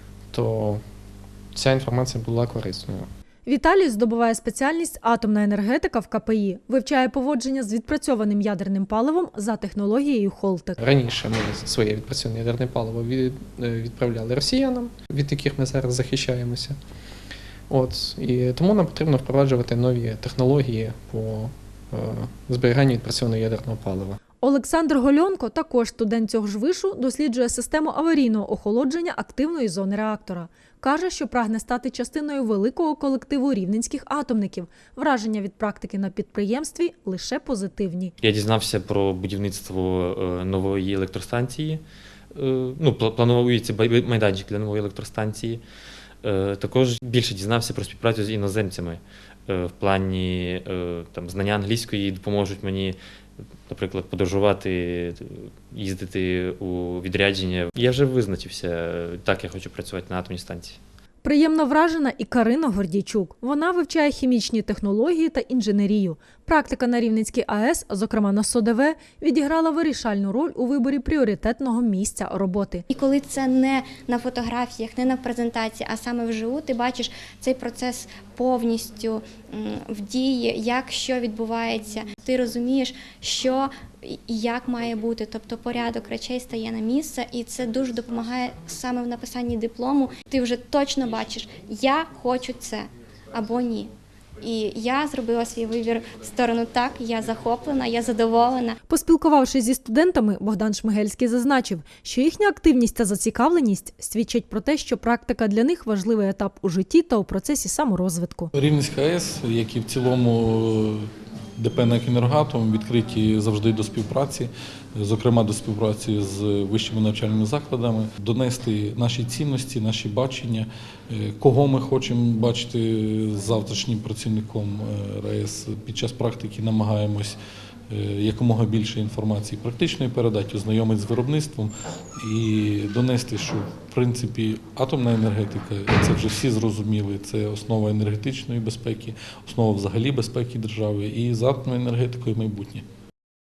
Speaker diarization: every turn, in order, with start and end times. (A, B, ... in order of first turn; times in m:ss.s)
0:00.3-0:00.8 A
0:01.5-0:03.1 A
0:03.5-0:10.8 B
0:10.8-0:16.8 A
0:17.7-0:24.2 A
0:24.4-0:38.1 B
0:38.2-0:41.8 C
0:42.3-0:45.6 C
0:46.2-0:53.0 C
0:53.7-1:00.8 C
1:01.2-1:12.8 B
1:12.9-1:38.8 D
1:38.9-1:48.5 B
1:48.5-2:07.4 E
2:07.9-2:22.8 E